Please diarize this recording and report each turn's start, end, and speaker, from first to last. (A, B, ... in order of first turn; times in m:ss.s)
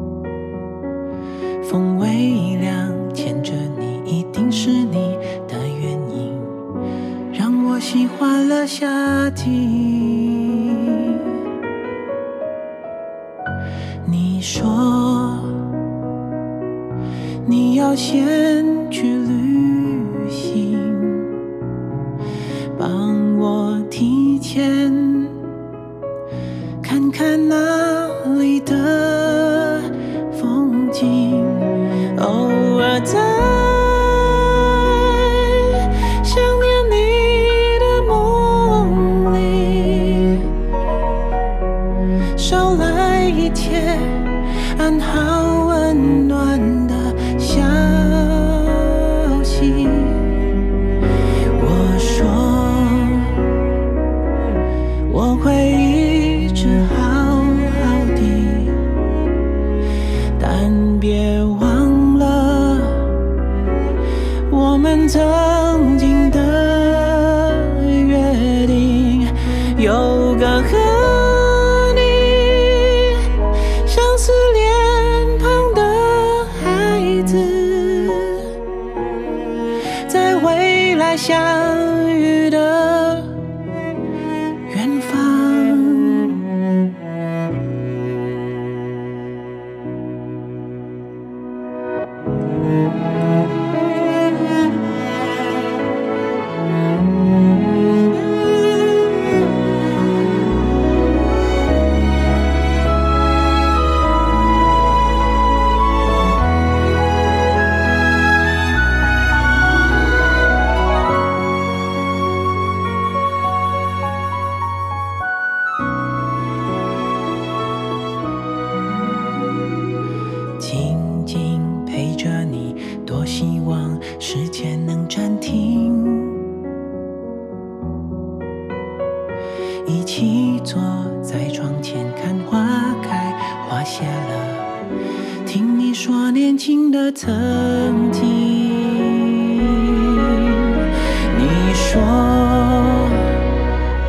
0:01.6-0:06.6 A
0:07.3-0:11.3 A
0:14.0-0:15.7 A
0:17.4-0:21.3 A
0:22.7-0:25.4 A
0:26.8-0:40.5 A
0:42.4-0:50.3 A
0:51.6-0:53.5 A
0:55.1-0:58.8 A
1:00.4-1:03.2 A
1:04.5-1:13.3 A
1:13.8-1:18.5 A
1:20.1-1:23.3 A
1:24.7-1:26.4 A
2:00.6-2:06.4 A
2:09.8-2:14.7 A
2:15.4-2:23.4 A